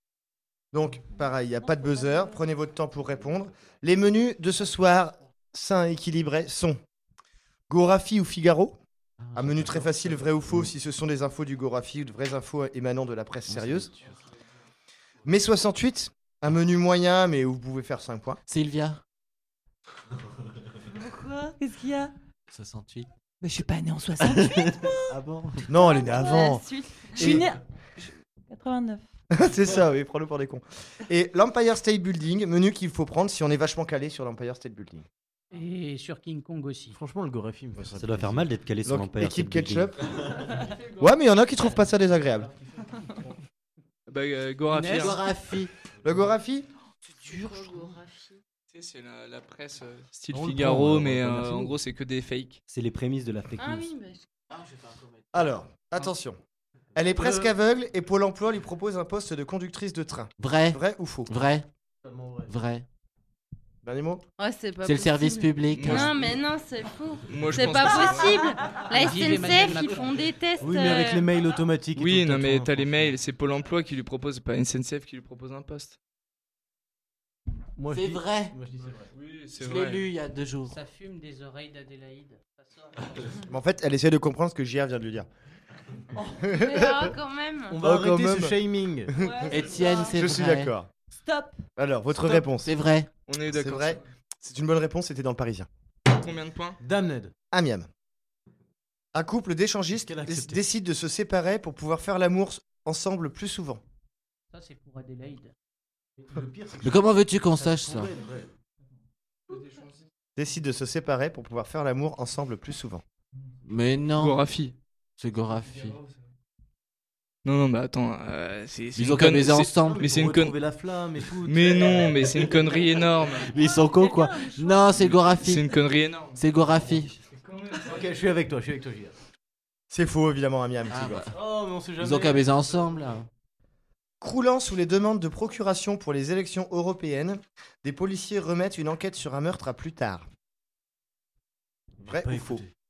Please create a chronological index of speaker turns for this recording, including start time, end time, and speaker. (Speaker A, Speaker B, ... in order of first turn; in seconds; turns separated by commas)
Speaker A: 0.7-6.8, Speaker B: 1.6-2.4, Speaker A: 7.7-8.8, Speaker C: 9.2-9.9, Speaker A: 9.3-13.9, Speaker D: 13.5-14.1, Speaker A: 15.2-18.4, Speaker C: 18.5-19.0, Speaker B: 20.9-22.1, Speaker C: 22.5-23.1, Speaker B: 23.4-25.2, Speaker D: 24.4-25.7, Speaker A: 25.7-27.5, Speaker B: 25.7-29.0, Speaker A: 29.3-35.0, Speaker E: 35.5-37.0, Speaker D: 36.9-38.5, Speaker F: 37.9-39.9, Speaker A: 38.8-40.1, Speaker A: 41.0-42.5, Speaker G: 44.1-45.2, Speaker E: 44.7-45.1, Speaker C: 44.8-45.7, Speaker A: 46.0-46.7, Speaker B: 47.2-47.9, Speaker H: 47.2-48.4, Speaker G: 48.7-52.6, Speaker D: 50.3-51.7, Speaker F: 52.7-53.9, Speaker H: 53.6-54.3, Speaker C: 54.5-55.4, Speaker A: 55.3-56.4, Speaker A: 56.9-61.3, Speaker D: 57.1-57.5, Speaker C: 60.4-61.7, Speaker D: 62.0-62.5, Speaker C: 62.5-62.8, Speaker A: 63.8-64.2, Speaker H: 64.4-71.3, Speaker C: 64.8-66.2, Speaker G: 65.7-66.2, Speaker G: 67.3-68.5, Speaker E: 68.9-70.2, Speaker D: 70.6-73.2, Speaker G: 71.9-76.0, Speaker D: 77.8-79.1, Speaker C: 77.9-78.6, Speaker G: 79.1-80.1, Speaker C: 79.5-80.8, Speaker E: 80.7-83.3, Speaker A: 83.5-85.3, Speaker A: 86.4-87.2, Speaker H: 86.5-87.8, Speaker D: 87.7-89.1, Speaker A: 87.8-88.6, Speaker B: 89.2-90.2, Speaker A: 89.2-90.9, Speaker C: 89.5-90.7, Speaker B: 91.2-91.6, Speaker A: 91.8-92.7, Speaker C: 92.2-93.1, Speaker G: 93.3-94.0, Speaker A: 93.5-95.7, Speaker G: 96.1-96.8, Speaker D: 96.8-97.3, Speaker A: 97.5-97.9, Speaker A: 99.1-103.8, Speaker D: 99.9-100.6, Speaker E: 104.5-105.5, Speaker D: 106.2-108.5, Speaker C: 106.8-108.1, Speaker G: 109.5-110.0, Speaker A: 110.3-113.0, Speaker C: 113.6-114.5, Speaker G: 114.1-114.7, Speaker C: 115.2-116.0, Speaker G: 115.6-116.1, Speaker G: 117.4-120.6, Speaker C: 119.0-120.0, Speaker D: 119.8-122.9, Speaker G: 121.4-123.5, Speaker C: 123.5-125.8, Speaker B: 123.6-125.0, Speaker G: 125.3-126.4, Speaker C: 126.3-127.1, Speaker G: 127.4-128.0, Speaker D: 127.8-129.1, Speaker A: 129.9-131.3, Speaker C: 130.9-131.3, Speaker D: 131.3-133.0, Speaker C: 132.0-133.3, Speaker A: 134.2-140.3, Speaker D: 142.0-142.7, Speaker A: 142.1-142.6